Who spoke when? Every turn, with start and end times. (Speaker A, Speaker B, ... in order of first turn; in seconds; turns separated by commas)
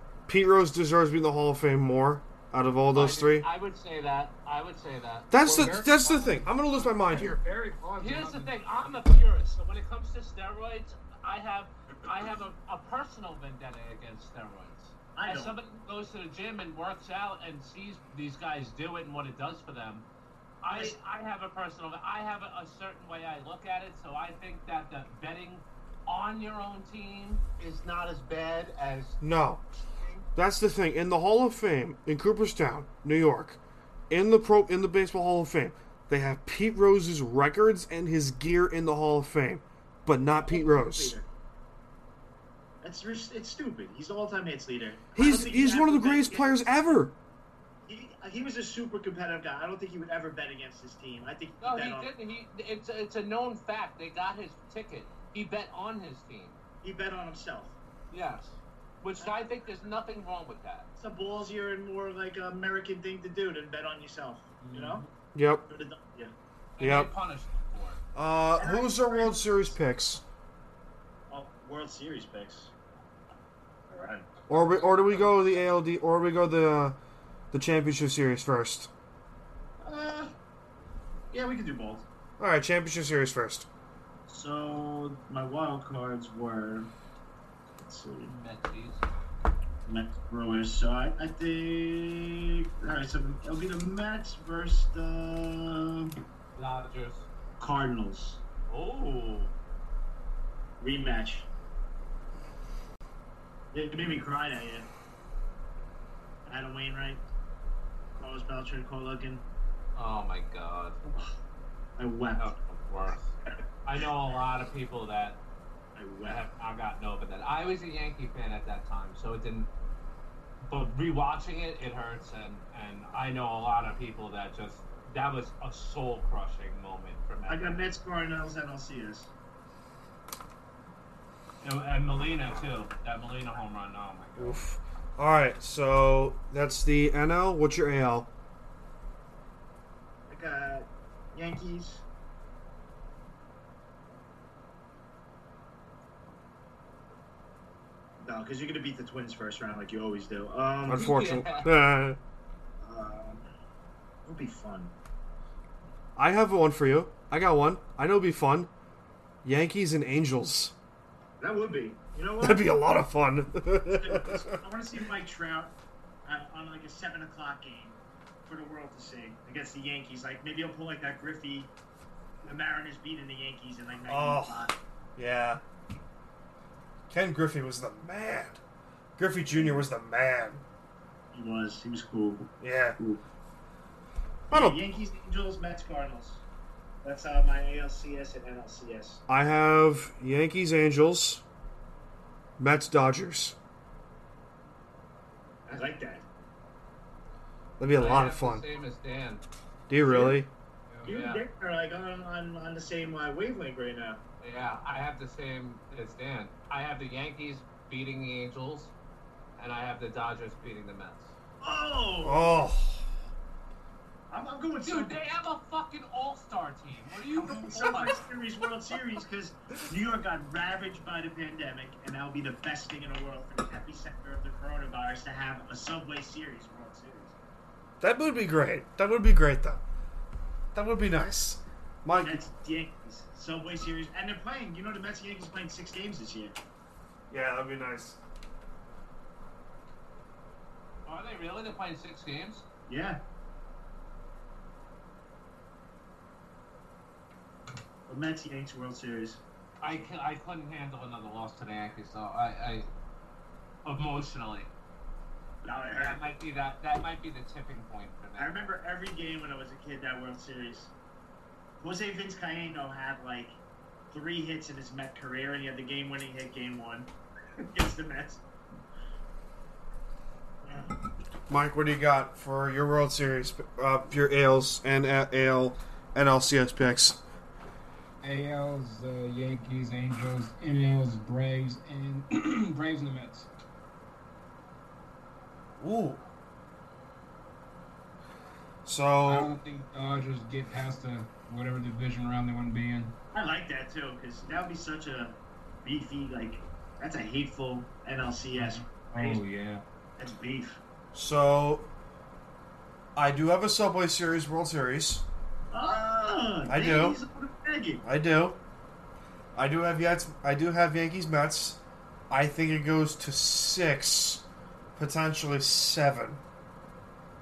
Speaker A: 0.3-3.5, Speaker B: 2.9-5.3, Speaker A: 5.3-7.4, Speaker C: 5.4-8.5, Speaker B: 8.0-20.1, Speaker D: 15.1-15.5, Speaker B: 20.6-29.2, Speaker D: 20.7-21.0, Speaker A: 29.2-29.6, Speaker B: 30.0-30.3, Speaker A: 30.4-33.6, Speaker A: 34.1-41.1, Speaker D: 40.3-41.2, Speaker D: 42.8-46.8, Speaker A: 45.1-47.1, Speaker D: 47.9-52.1, Speaker B: 51.6-56.6, Speaker D: 56.8-57.7, Speaker B: 58.1-60.9, Speaker D: 61.0-65.0, Speaker C: 64.6-65.1, Speaker A: 65.3-65.7, Speaker D: 65.7-66.3, Speaker B: 66.8-68.0, Speaker A: 66.8-67.1, Speaker A: 68.1-70.2, Speaker D: 68.6-69.7, Speaker D: 71.3-72.7, Speaker D: 73.9-74.3, Speaker C: 74.5-75.2, Speaker A: 74.5-77.0, Speaker A: 77.5-78.9, Speaker D: 79.8-80.3, Speaker D: 81.3-82.0, Speaker A: 82.4-83.7, Speaker D: 84.3-86.9, Speaker D: 87.8-88.3, Speaker B: 88.2-89.1, Speaker D: 89.8-96.1, Speaker B: 96.5-97.2, Speaker D: 97.6-98.4, Speaker B: 98.7-99.5, Speaker D: 100.8-101.5, Speaker D: 103.7-104.9, Speaker D: 106.5-107.2, Speaker D: 108.2-109.4, Speaker B: 109.9-111.0, Speaker D: 111.0-111.3, Speaker D: 112.0-112.5, Speaker B: 112.4-115.4, Speaker D: 116.0-116.4, Speaker B: 116.2-119.7, Speaker B: 120.7-127.8, Speaker D: 127.5-129.3, Speaker B: 131.6-134.6, Speaker A: 134.4-138.3, Speaker D: 140.3-142.0, Speaker D: 148.2-151.1, Speaker A: 150.9-152.2, Speaker B: 150.9-151.7, Speaker D: 152.8-153.5, Speaker D: 154.2-154.9, Speaker A: 156.2-158.7, Speaker A: 159.4-160.7, Speaker D: 161.4-162.7, Speaker A: 162.4-164.6, Speaker D: 163.9-171.7, Speaker D: 172.4-174.8, Speaker A: 174.1-175.6, Speaker A: 177.1-178.6, Speaker A: 179.2-180.6, Speaker D: 179.5-179.8, Speaker D: 181.3-183.2, Speaker A: 182.6-183.0, Speaker D: 184.5-186.4, Speaker A: 184.5-184.8, Speaker D: 187.0-189.2, Speaker A: 189.3-191.4, Speaker A: 192.6-193.6, Speaker D: 195.7-196.2, Speaker A: 197.8-198.6, Speaker B: 197.9-199.4, Speaker A: 199.9-200.5, Speaker D: 200.0-200.4, Speaker B: 201.0-201.4, Speaker D: 201.0-204.2, Speaker B: 204.4-208.9, Speaker B: 209.6-211.3, Speaker D: 211.6-212.6, Speaker A: 212.2-213.1, Speaker D: 214.3-215.2, Speaker B: 214.8-218.2, Speaker D: 217.3-227.3, Speaker A: 228.0-229.8, Speaker A: 230.7-232.4, Speaker D: 232.2-236.5, Speaker A: 237.3-238.2, Speaker B: 241.1-242.6, Speaker D: 242.9-243.2, Speaker D: 248.1-249.4, Speaker B: 249.8-252.9, Speaker B: 253.8-254.7, Speaker D: 255.6-256.2, Speaker B: 256.0-258.7, Speaker D: 258.4-260.9, Speaker D: 261.8-263.6, Speaker D: 264.1-267.1, Speaker D: 267.6-268.4, Speaker D: 270.6-271.0, Speaker A: 271.5-277.2, Speaker C: 278.2-283.5, Speaker A: 285.8-286.2, Speaker A: 288.8-289.5, Speaker C: 289.3-293.1, Speaker D: 293.3-299.4, Speaker C: 298.5-299.8, Speaker D: 300.2-300.8, Speaker A: 301.1-301.9, Speaker A: 303.1-305.2, Speaker D: 305.7-308.0, Speaker A: 306.7-307.2, Speaker A: 308.0-308.6, Speaker A: 309.5-314.4, Speaker A: 314.9-316.4